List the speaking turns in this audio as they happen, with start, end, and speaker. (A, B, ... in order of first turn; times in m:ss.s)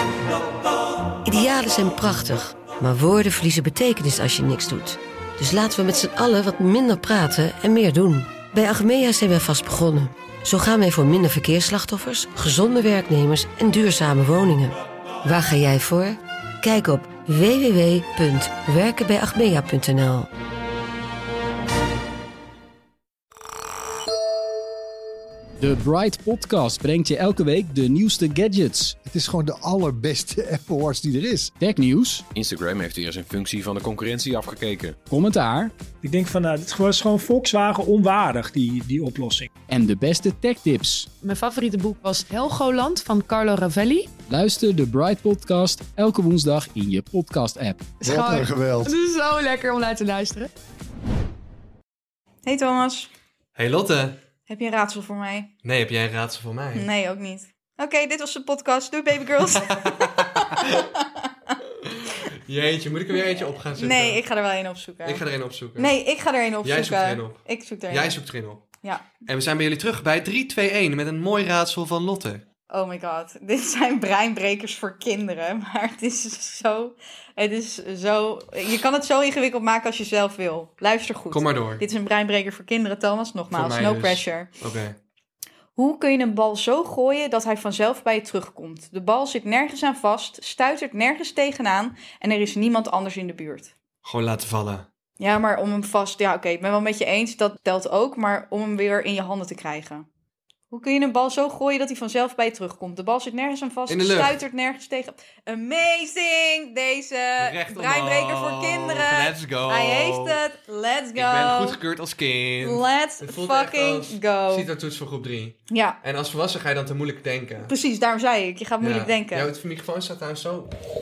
0:01.2-0:20.3 A
0:25.6-0:29.0 B
0:29.0-0:31.5 C
0:31.6-0:32.2 B
0:32.3-0:35.0 D
0:35.1-0:35.7 B
0:36.0-0:39.5 E
0:39.7-0:41.1 B
0:41.2-0:44.1 F
0:44.3-0:47.9 B
0:48.0-0:50.5 F
0:48.0-0:48.9 C
0:52.4-0:53.1 G
0:53.5-0:54.2 H
0:54.5-0:55.5 G
0:55.6-0:56.9 H
0:56.7-1:01.5 G
0:59.4-1:00.9 H
1:01.8-1:04.2 H
1:03.7-1:05.2 G
1:05.0-1:05.9 H
1:05.8-1:08.2 G
1:06.6-1:08.7 H
1:09.2-1:12.4 H
1:12.7-1:24.5 G
1:21.3-1:21.8 H
1:23.5-1:25.0 H
1:25.8-1:33.7 G
1:34.0-1:34.9 H
1:35.2-1:40.1 G
1:40.7-1:51.8 G
1:43.9-1:44.4 H
1:47.4-1:50.4 H
1:51.1-1:57.7 H
1:52.6-1:54.7 G
1:55.7-1:56.0 G
1:57.6-1:59.5 G
1:58.8-2:00.7 H